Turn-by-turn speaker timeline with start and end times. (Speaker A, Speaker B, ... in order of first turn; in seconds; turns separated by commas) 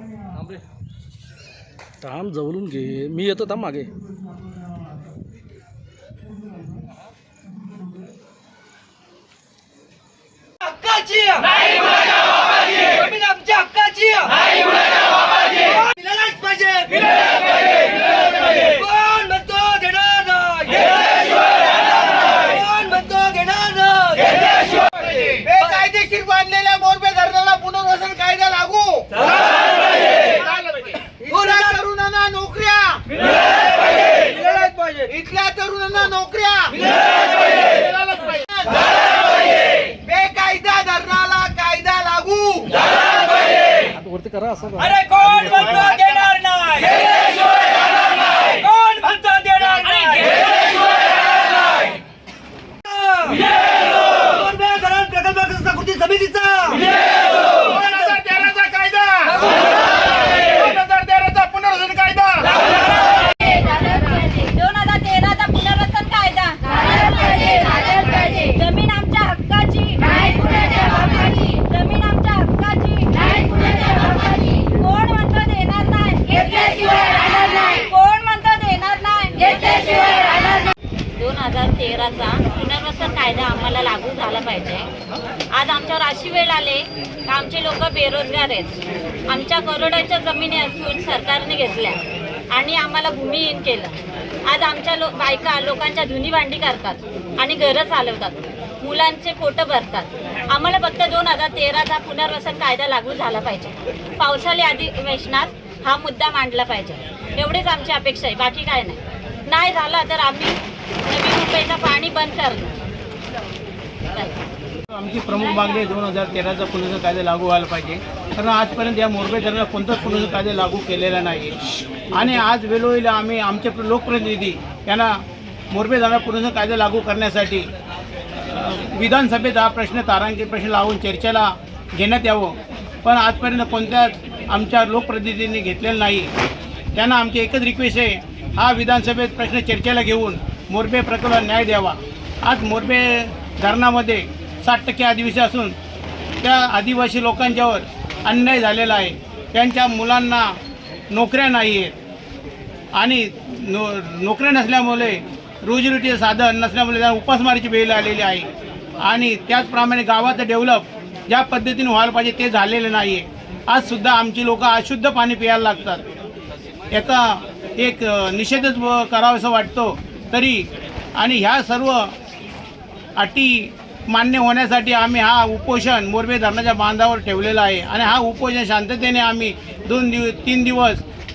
Speaker A: 2.0-3.9, Speaker B: 10.6-25.8, Speaker C: 25.4-29.1, Speaker C: 30.4-33.0, Speaker B: 31.2-31.8, Speaker B: 34.3-35.0, Speaker C: 34.9-36.8, Speaker C: 37.3-39.0, Speaker C: 39.9-42.9, Speaker A: 44.0-44.9, Speaker B: 44.7-51.7, Speaker B: 52.8-57.0, Speaker B: 57.5-59.7, Speaker B: 60.2-60.8, Speaker C: 61.1-62.2, Speaker D: 63.3-84.9, Speaker D: 85.5-92.0, Speaker D: 92.5-112.8, Speaker D: 114.1-114.4, Speaker E: 114.9-121.5, Speaker E: 122.1-125.1, Speaker E: 125.7-127.7, Speaker E: 128.5-136.3, Speaker E: 136.9-145.8, Speaker E: 146.4-150.6, Speaker E: 151.1-151.9, Speaker E: 152.9-158.5, Speaker E: 159.0-166.1, Speaker E: 166.9-170.7, Speaker E: 171.2-172.1, Speaker E: 173.2-181.0